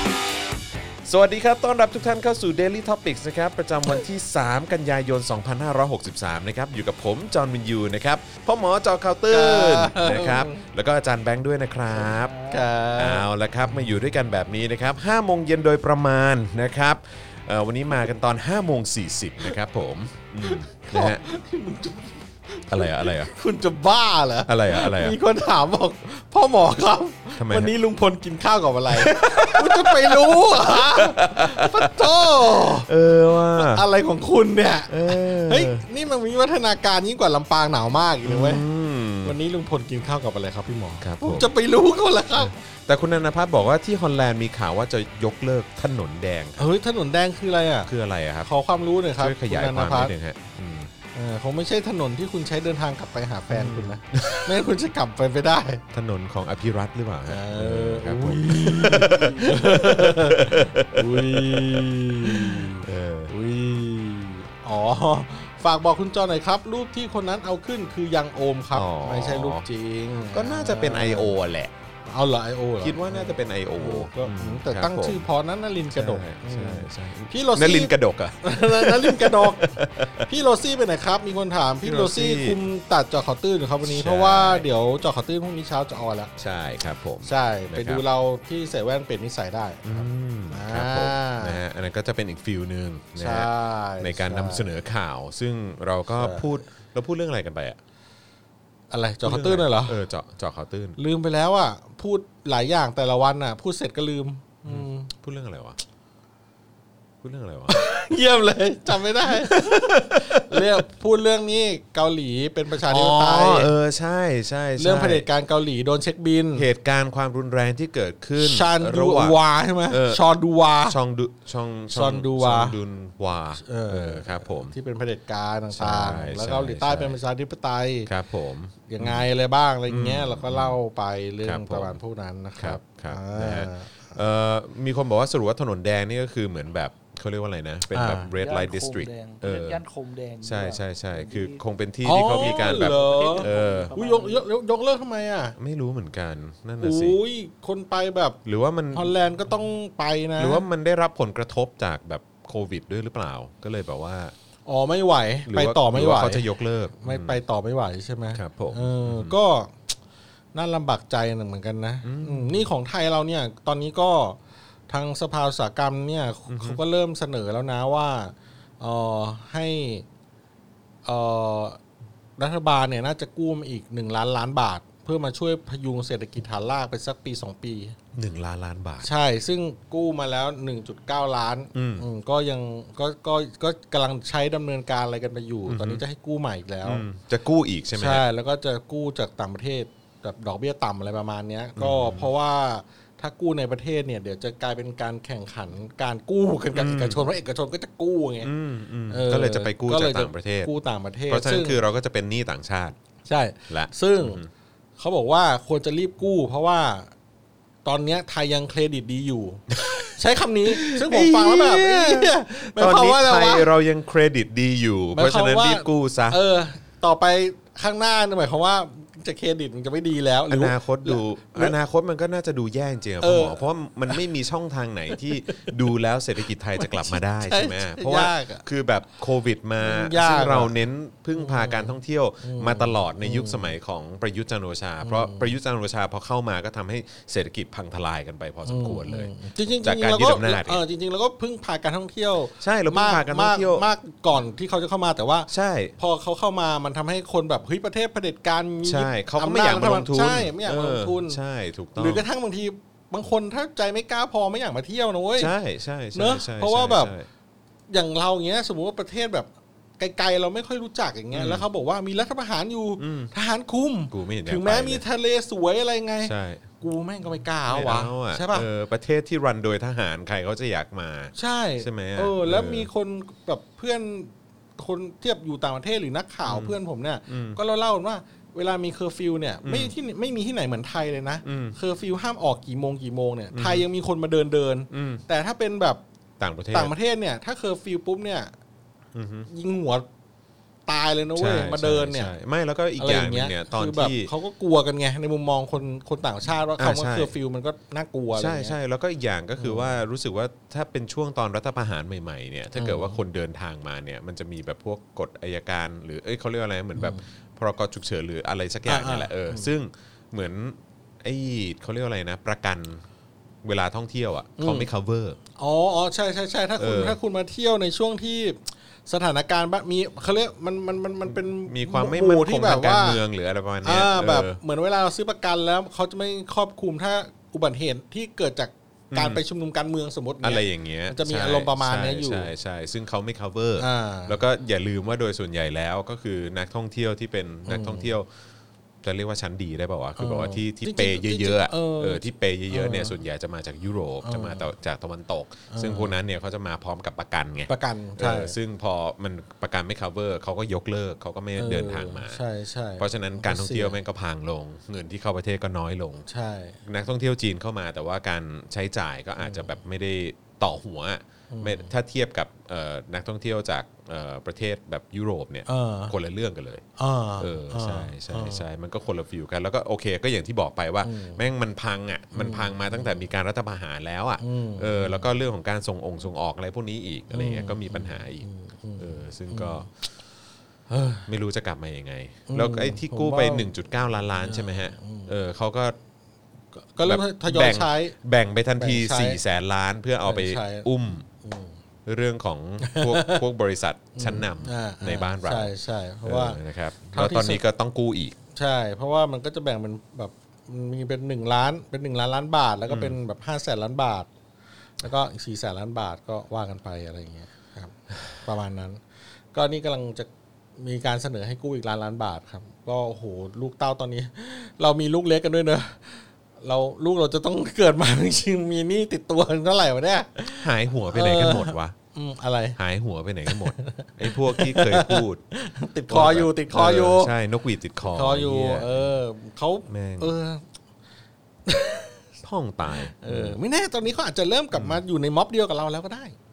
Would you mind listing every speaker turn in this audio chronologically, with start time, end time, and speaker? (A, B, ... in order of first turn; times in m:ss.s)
0:01.0-0:12.4 A
0:09.3-0:10.6 B
0:12.0-0:12.7 C
0:12.5-0:13.3 B
0:13.0-0:21.2 A
0:20.4-0:32.9 B
0:22.7-0:23.3 A
0:24.5-0:25.2 A
0:27.4-0:27.8 A
0:28.9-0:33.8 A
0:33.6-0:38.6 B
0:34.9-0:35.8 A
0:38.2-0:39.4 A
0:39.2-0:42.6 B
0:41.0-0:41.5 A
0:42.4-0:46.7 A
0:46.6-0:47.9 B
0:47.9-0:48.5 A
0:48.4-0:50.1 B
0:49.2-0:50.9 A
0:51.1-0:55.8 B
0:53.5-0:54.6 A
0:55.9-1:03.3 A
0:57.3-1:11.4 B
1:08.7-1:09.7 A
1:10.3-1:11.8 A
1:12.1-1:19.7 B
1:12.8-1:15.2 A
1:15.9-1:20.3 A
1:20.3-1:26.3 B
1:21.8-1:22.6 A
1:23.8-1:24.7 A
1:26.4-1:28.0 A
1:27.2-1:31.6 B
1:29.8-1:33.5 A
1:33.2-1:34.8 B
1:34.0-1:37.8 A
1:36.1-1:36.5 B
1:38.9-1:40.0 B
1:39.2-1:41.0 A
1:41.0-1:45.1 B
1:44.7-1:45.8 A
1:47.2-1:47.8 A
1:47.7-1:53.7 B
1:49.2-1:50.8 A
1:52.9-1:55.3 A
1:54.8-1:56.7 B
1:56.6-1:59.4 A
1:58.4-2:01.0 B
1:59.9-2:00.2 A
2:00.8-2:04.7 A
2:01.9-2:02.8 B
2:03.6-2:08.1 B
2:05.7-2:07.2 A
2:08.1-2:09.3 A
2:08.9-2:14.2 B
2:09.9-2:10.8 A
2:11.4-2:12.0 A
2:12.6-2:19.8 A
2:17.9-2:18.3 B
2:18.3-2:21.6 C
2:20.4-2:23.9 A
2:22.0-2:25.6 B
2:22.2-2:24.4 C
2:25.6-2:27.2 A
2:26.8-2:28.4 B
2:28.4-2:29.1 A
2:28.9-2:30.6 B
2:30.4-2:34.3 A
2:34.7-2:36.4 B
2:35.5-2:37.4 A
2:37.0-2:39.8 B
2:38.4-2:39.4 A
2:40.5-2:44.4 B
2:42.0-2:42.7 A
2:44.9-2:50.1 B
2:46.5-2:46.8 A
2:51.0-2:51.8 B
2:52.4-2:58.0 B
2:58.1-2:59.1 A
2:59.0-3:07.0 B
3:01.7-3:02.0 A
3:05.7-3:06.0 A
3:06.8-3:08.2 A
3:07.9-3:18.5 B
3:11.8-3:12.3 A
3:16.8-3:17.2 A
3:18.4-3:20.7 A
3:19.1-3:21.8 B
3:21.3-3:23.0 A
3:23.3-3:24.4 B
3:23.7-3:24.5 A
3:25.0-3:27.1 B
3:27.8-3:33.7 B
3:30.7-3:36.4 A
3:35.1-3:41.8 B
3:40.5-4:00.8 A
3:43.2-3:44.2 B
3:45.3-3:45.7 B
3:46.8-3:48.7 B
3:49.8-3:50.8 B
3:51.4-3:53.7 B
3:55.0-3:55.5 B
3:58.6-4:11.4 B
4:02.6-4:03.8 A
4:05.5-4:06.0 A
4:08.8-4:12.2 A
4:12.0-4:15.5 B
4:15.4-4:17.3 A
4:16.1-4:17.1 B
4:17.9-4:28.7 B
4:21.3-4:21.6 A
4:23.0-4:23.3 A
4:24.1-4:25.0 A
4:26.2-4:26.7 A
4:27.7-4:32.9 A
4:31.4-4:46.0 B
4:36.5-4:36.8 A
4:37.3-4:37.6 A
4:39.6-4:39.9 A
4:41.4-4:41.8 A
4:43.5-4:43.9 A
4:44.9-4:45.2 A
4:46.4-4:46.9 A
4:46.7-4:48.5 B
4:49.1-4:49.5 A
4:49.5-4:50.1 B
4:50.9-4:52.3 B
4:51.4-4:54.3 A
4:53.0-4:58.8 B
4:56.8-4:57.3 A
4:58.3-5:13.0 A
4:59.6-5:00.0 B
5:02.8-5:03.2 B
5:07.0-5:07.2 B
5:08.9-5:09.7 B
5:13.6-5:15.4 A
5:14.6-5:14.9 B
5:15.6-5:23.2 B
5:16.8-5:17.2 A
5:21.3-5:24.6 A
5:23.8-5:32.5 B
5:29.1-5:29.4 A
5:30.4-5:38.3 A
5:33.8-5:34.4 B
5:37.7-5:38.1 B
5:39.0-5:52.4 A
5:40.2-5:43.2 B
5:44.2-5:44.6 B
5:45.7-5:46.2 B
5:47.7-5:48.6 B
5:51.6-5:54.0 B
5:53.0-5:56.3 A
5:56.3-5:56.8 B
5:56.8-6:06.8 A
5:59.4-5:59.7 B
6:01.5-6:01.9 B
6:05.7-6:06.1 B
6:07.0-6:08.6 B
6:07.4-6:18.5 A
6:11.0-6:11.4 B
6:12.3-6:13.2 B
6:14.4-6:15.3 B
6:17.3-6:19.9 B
6:19.0-6:19.9 A
6:20.9-6:21.3 B
6:21.3-6:26.0 A
6:22.5-6:23.7 B
6:24.4-6:25.3 B
6:26.8-6:28.2 B
6:27.0-6:31.3 A
6:28.8-6:29.4 B
6:30.2-6:30.9 B
6:31.4-6:31.8 B
6:32.1-6:35.7 A
6:32.8-6:33.4 B
6:34.2-6:36.6 B
6:36.2-6:38.4 A
6:37.1-6:37.6 B
6:38.6-6:44.3 B
6:42.9-6:43.2 A
6:45.0-6:49.0 B
6:49.5-7:02.8 B
7:00.5-7:02.0 A
7:02.8-7:05.4 A
7:03.5-7:07.3 B
7:06.1-7:09.1 A
7:08.0-7:10.6 B
7:09.9-7:10.3 A
7:11.7-7:12.3 B
7:12.4-7:13.6 A
7:13.0-7:16.4 B
7:14.7-7:15.0 A